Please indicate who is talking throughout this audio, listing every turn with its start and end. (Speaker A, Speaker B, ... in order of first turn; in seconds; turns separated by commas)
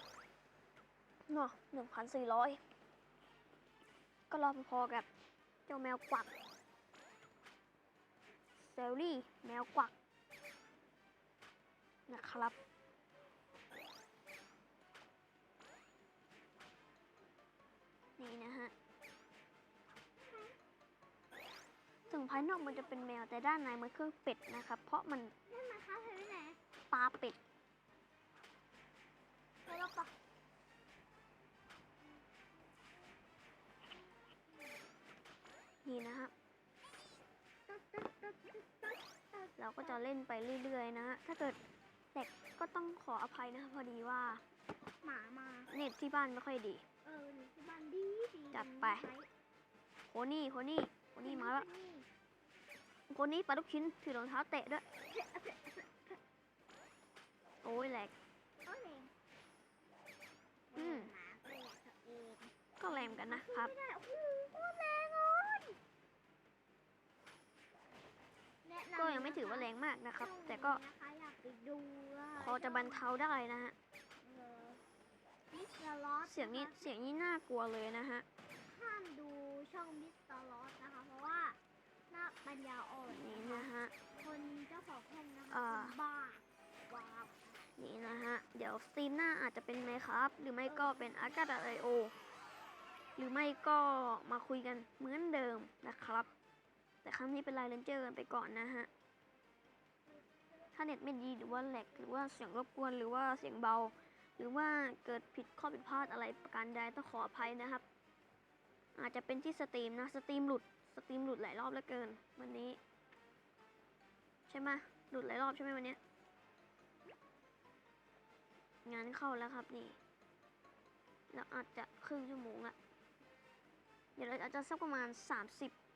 Speaker A: 1.3-2.6, Speaker A: 4.3-5.1, Speaker A: 5.7-6.3, Speaker A: 8.6-9.9, Speaker A: 12.1-12.6, Speaker A: 18.2-18.7, Speaker B: 20.2-20.6, Speaker B: 22.1-23.1, Speaker A: 22.1-25.3, Speaker B: 25.5-26.6, Speaker A: 26.9-27.4, Speaker B: 29.6-30.1, Speaker B: 32.0-32.9, Speaker B: 34.3-34.8, Speaker A: 35.8-36.3, Speaker B: 37.7-40.0, Speaker A: 39.6-41.6, Speaker A: 42.1-44.4, Speaker B: 45.0-45.7, Speaker A: 45.7-46.8, Speaker B: 47.0-49.3, Speaker A: 48.5-49.1, Speaker A: 50.1-51.7, Speaker B: 51.2-52.1, Speaker A: 53.1-54.8, Speaker B: 55.1-56.2, Speaker A: 57.6-58.1, Speaker B: 58.6-59.1, Speaker B: 60.7-65.8, Speaker A: 60.8-61.1, Speaker A: 62.8-63.7, Speaker B: 68.6-73.1, Speaker A: 68.9-70.8, Speaker A: 72.3-73.8, Speaker B: 74.2-74.8, Speaker B: 75.5-76.9, Speaker A: 76.2-78.2, Speaker B: 78.6-87.5, Speaker A: 83.1-83.9, Speaker A: 85.5-86.0, Speaker A: 87.8-92.1, Speaker B: 90.7-91.4, Speaker A: 93.2-96.3, Speaker A: 97.0-98.9, Speaker B: 100.1-102.1, Speaker A: 100.7-107.8, Speaker A: 108.9-112.8, Speaker A: 114.5-116.0, Speaker A: 118.8-120.0, Speaker A: 121.3-122.8, Speaker A: 124.2-125.7